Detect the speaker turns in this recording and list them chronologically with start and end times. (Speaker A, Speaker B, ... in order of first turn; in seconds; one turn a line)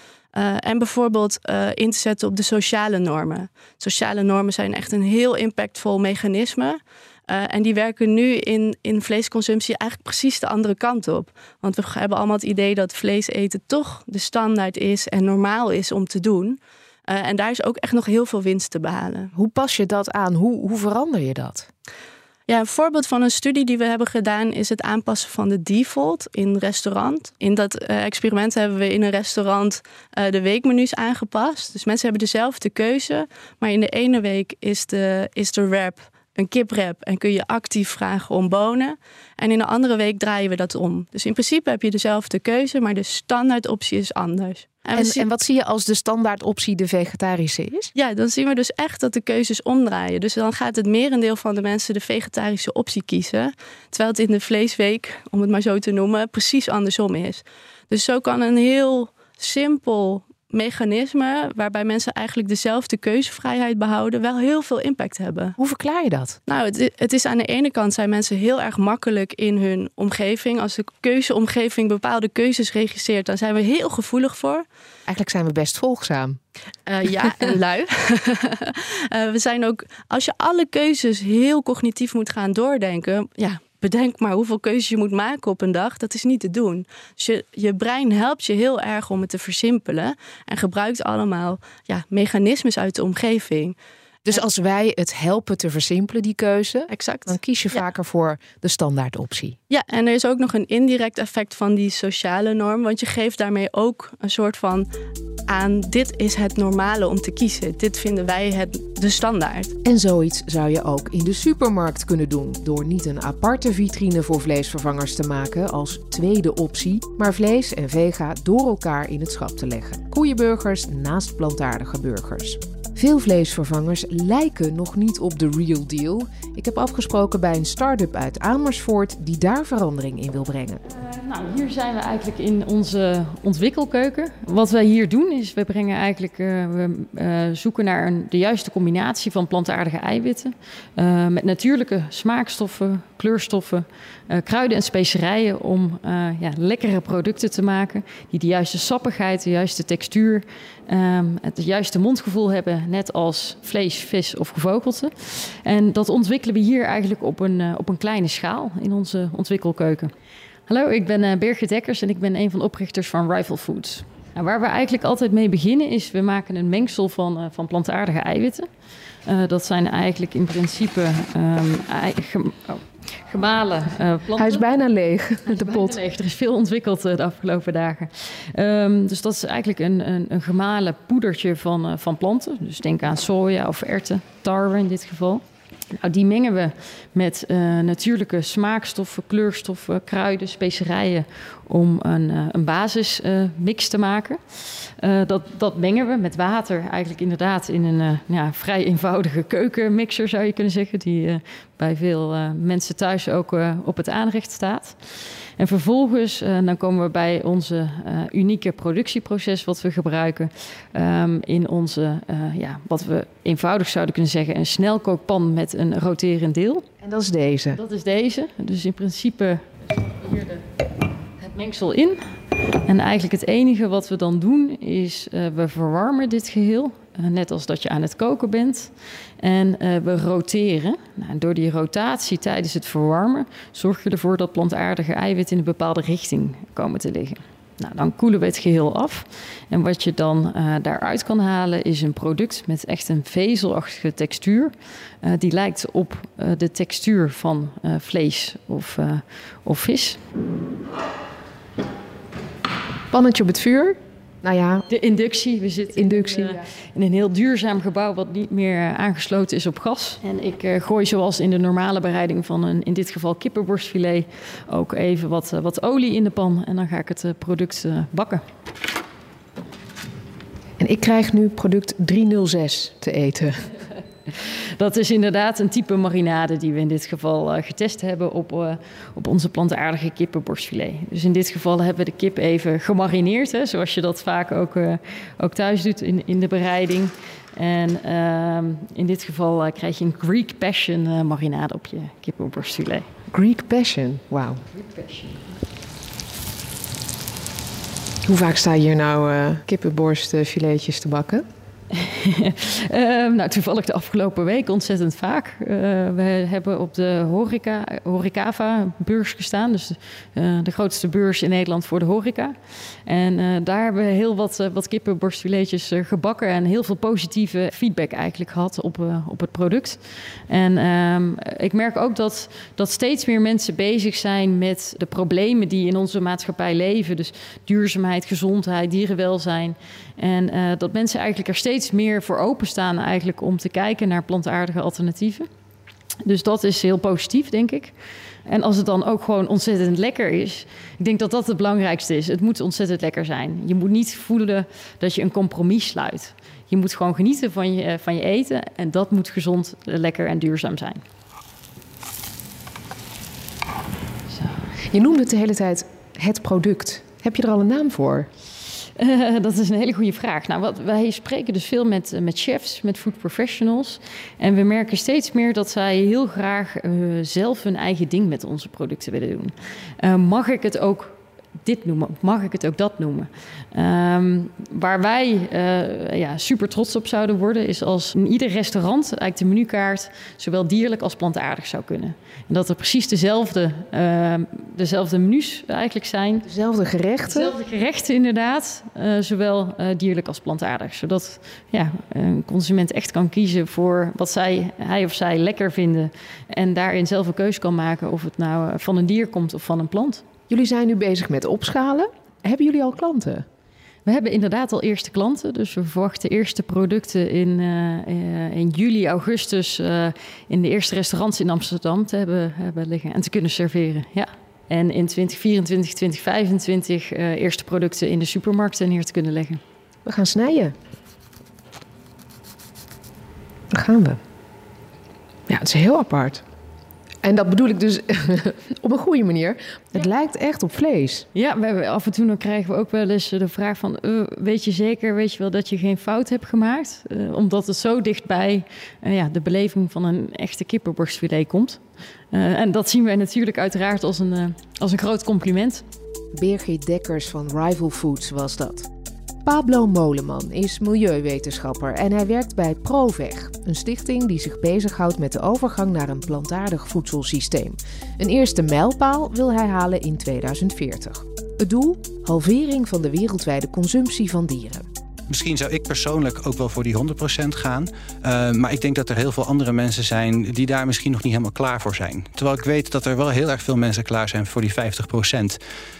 Speaker A: 0.3-19.3
Speaker B: 19.3-21.7
Speaker A: 22.5-45.2
Speaker B: 44.9-47.9
Speaker A: 47.9-65.5
Speaker B: 65.6-66.4
Speaker A: 66.5-74.6
Speaker B: 75.1-76.4
Speaker A: 76.9-93.8
Speaker B: 94.2-99.6
Speaker A: 96.9-97.8
Speaker A: 99.7-104.9
Speaker A: 105.5-109.7
Speaker B: 109.8-130.8
Speaker C: 130.9-160.1
Speaker C: 160.7-168.7
Speaker C: 169.2-174.6
Speaker B: 174.4-176.0
Speaker C: 175.5-185.4
Speaker C: 185.9-216.8
Speaker B: 217.0-217.8
Speaker C: 217.7-220.6
Speaker C: 221.4-222.3
Speaker C: 222.8-250.2
Speaker B: 253.1-254.8
Speaker C: 254.9-268.4
Speaker B: 255.9-256.6
Speaker B: 270.8-273.7
Speaker C: 274.3-293.1
Speaker B: 293.3-294.6
Speaker C: 294.7-295.4
Speaker B: 298.2-301.4
Speaker C: 301.9-335.5
Speaker C: 336.2-337.9
Speaker C: 338.4-351.0
Speaker B: 354.9-358.3
Speaker C: 359.0-386.5
Speaker B: 386.4-387.5
Speaker C: 387.3-400.2
Speaker B: 400.5-403.4
Speaker C: 404.1-419.6
Speaker B: 420.0-420.7
Speaker B: 423.7-424.2
Speaker B: 425.5-426.4
Speaker B: 427.2-431.2
Speaker C: 431.3-441.8
Speaker C: 442.3-445.8
Speaker B: 446.3-448.9
Speaker B: 449.4-464.9
Speaker D: 465.3-475.6